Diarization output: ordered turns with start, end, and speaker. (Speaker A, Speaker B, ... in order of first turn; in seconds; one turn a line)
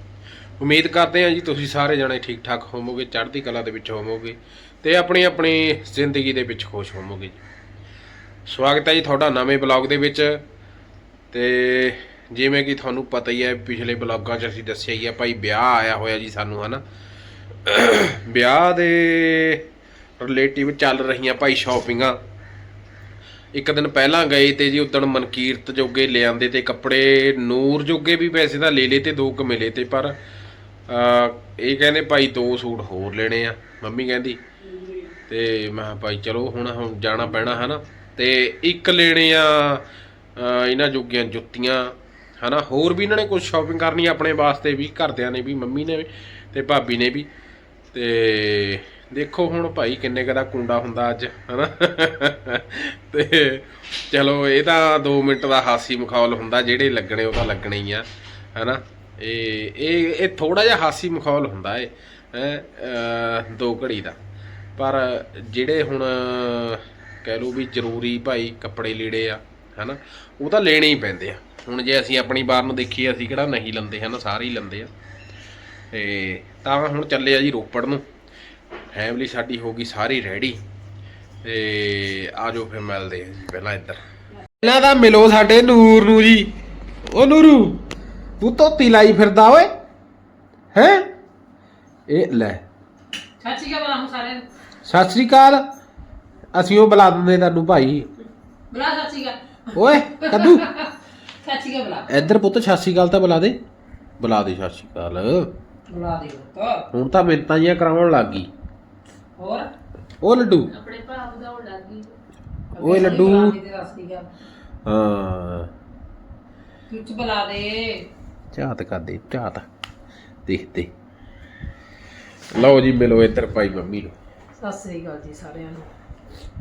Speaker A: 0.6-7.4
Speaker A: 8.4-10.4
Speaker A: 11.3-16.8
Speaker A: 17.6-19.6
Speaker A: 20.2-22.2
Speaker A: 23.5-30.1
Speaker A: 30.9-34.4
Speaker A: 35.3-39.8
Speaker A: 40.4-47.3
Speaker A: 47.9-64.2
Speaker A: 64.8-74.9
Speaker A: 75.9-78.0
Speaker A: 78.9-80.6
Speaker A: 81.4-84.0
Speaker A: 84.6-86.5
Speaker A: 87.1-87.8
Speaker A: 88.4-89.7
Speaker A: 90.7-91.0
Speaker A: 92.1-92.6
Speaker B: 93.4-94.4
Speaker A: 94.8-95.7
Speaker A: 96.5-98.1
Speaker B: 98.7-100.9
Speaker A: 99.7-100.7
Speaker B: 101.4-102.1
Speaker A: 102.1-103.6
Speaker A: 104.2-105.5
Speaker B: 105.9-106.8
Speaker A: 106.9-108.5
Speaker B: 109.4-109.7
Speaker A: 110.2-110.7
Speaker C: 110.7-112.2
Speaker B: 112.7-114.3
Speaker A: 112.8-113.5
Speaker C: 112.9-113.6
Speaker A: 114.8-115.7
Speaker B: 116.9-118.0
Speaker A: 118.5-119.7
Speaker A: 120.5-120.9
Speaker A: 122.5-124.1
Speaker B: 124.5-125.9